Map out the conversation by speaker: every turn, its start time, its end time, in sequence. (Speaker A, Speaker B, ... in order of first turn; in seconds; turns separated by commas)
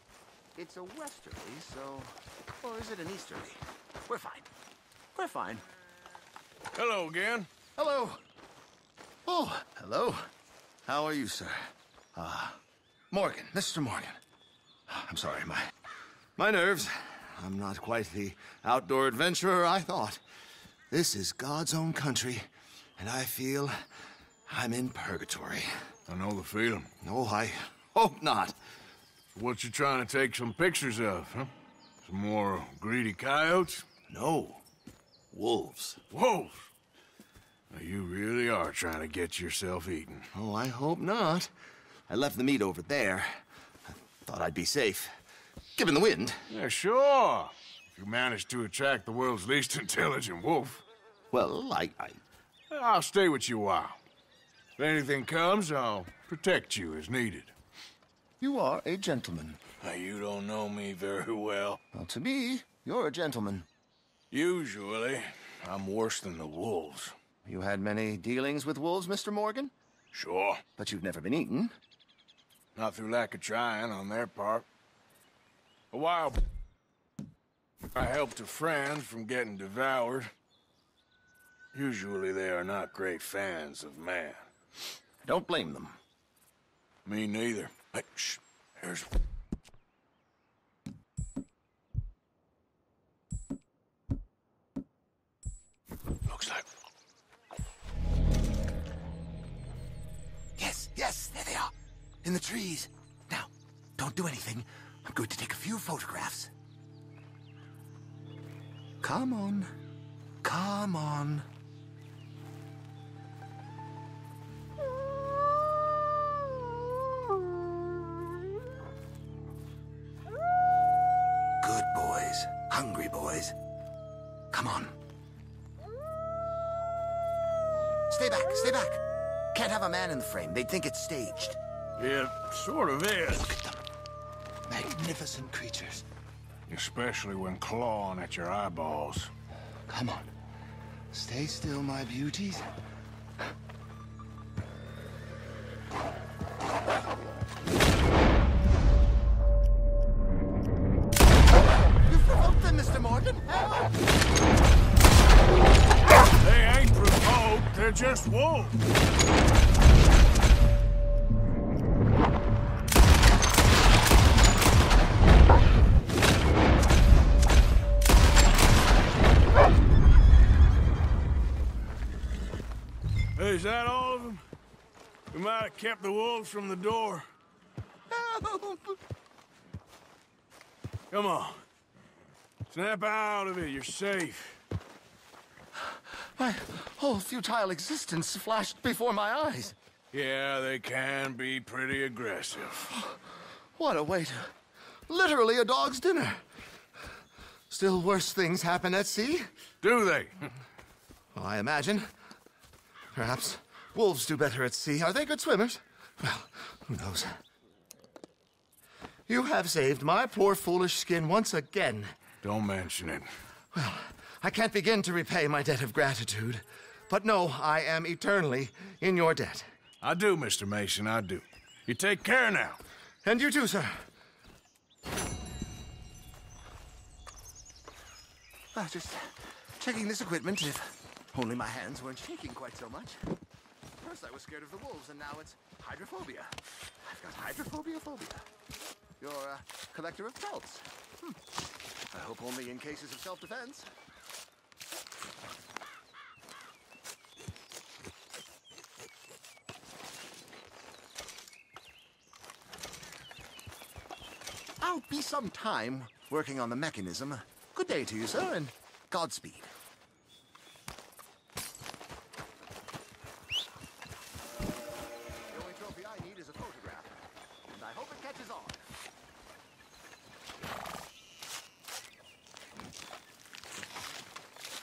Speaker A: 0.6-4.5, Speaker A: 5.1-5.6, Speaker B: 6.7-7.5, Speaker A: 7.8-8.2, Speaker A: 9.3-10.3, Speaker A: 10.9-11.6, Speaker A: 12.2-12.6, Speaker A: 13.1-14.2, Speaker A: 14.9-15.7, Speaker A: 16.4-20.2, Speaker A: 20.9-22.5, Speaker A: 23.0-23.8, Speaker A: 24.5-25.7, Speaker B: 26.1-26.9, Speaker A: 27.0-28.6, Speaker B: 29.3-31.5, Speaker B: 32.0-33.9, Speaker A: 34.1-34.6, Speaker A: 35.3-36.0, Speaker B: 36.1-36.7, Speaker B: 37.7-40.3, Speaker A: 40.3-41.5, Speaker A: 42.1-45.1, Speaker A: 45.8-46.5, Speaker B: 46.5-50.8, Speaker A: 51.3-52.2, Speaker B: 52.7-54.0, Speaker B: 54.8-57.5, Speaker A: 58.4-59.6, Speaker B: 59.8-61.8, Speaker A: 61.9-63.7, Speaker B: 64.3-67.2, Speaker A: 67.5-69.7, Speaker B: 70.1-70.6, Speaker A: 70.8-71.7, Speaker B: 72.8-74.7, Speaker B: 75.9-76.4, Speaker B: 78.0-80.3, Speaker B: 81.7-84.4, Speaker A: 85.2-86.0, Speaker B: 87.0-89.1, Speaker B: 96.3-96.7, Speaker A: 100.6-101.7, Speaker A: 102.2-106.5, Speaker A: 109.0-109.7, Speaker A: 110.4-111.5, Speaker A: 121.6-123.6, Speaker A: 124.5-125.0, Speaker A: 128.1-129.0, Speaker A: 129.5-131.6, Speaker B: 132.0-133.6, Speaker A: 133.4-133.8, Speaker A: 134.7-136.1, Speaker B: 136.7-139.3, Speaker A: 139.9-140.3, Speaker A: 141.1-142.7, Speaker A: 152.1-153.9, Speaker B: 156.4-158.8, Speaker B: 173.4-174.4, Speaker B: 175.3-177.3, Speaker A: 178.1-179.0, Speaker B: 181.1-181.7, Speaker B: 182.7-184.6, Speaker A: 186.4-189.8, Speaker B: 190.1-192.9, Speaker A: 192.9-193.2, Speaker A: 193.8-194.5, Speaker A: 195.1-196.4, Speaker A: 197.7-199.5, Speaker B: 199.8-200.5, Speaker A: 201.3-202.1, Speaker A: 203.1-207.4, Speaker A: 209.3-212.1, Speaker B: 212.4-213.3, Speaker A: 213.7-219.7, Speaker B: 220.0-222.8, Speaker A: 223.2-224.0, Speaker A: 228.7-233.2, Speaker A: 234.0-238.4, Speaker A: 239.2-241.4, Speaker A: 242.1-243.9, Speaker A: 254.8-259.7, Speaker A: 265.5-268.9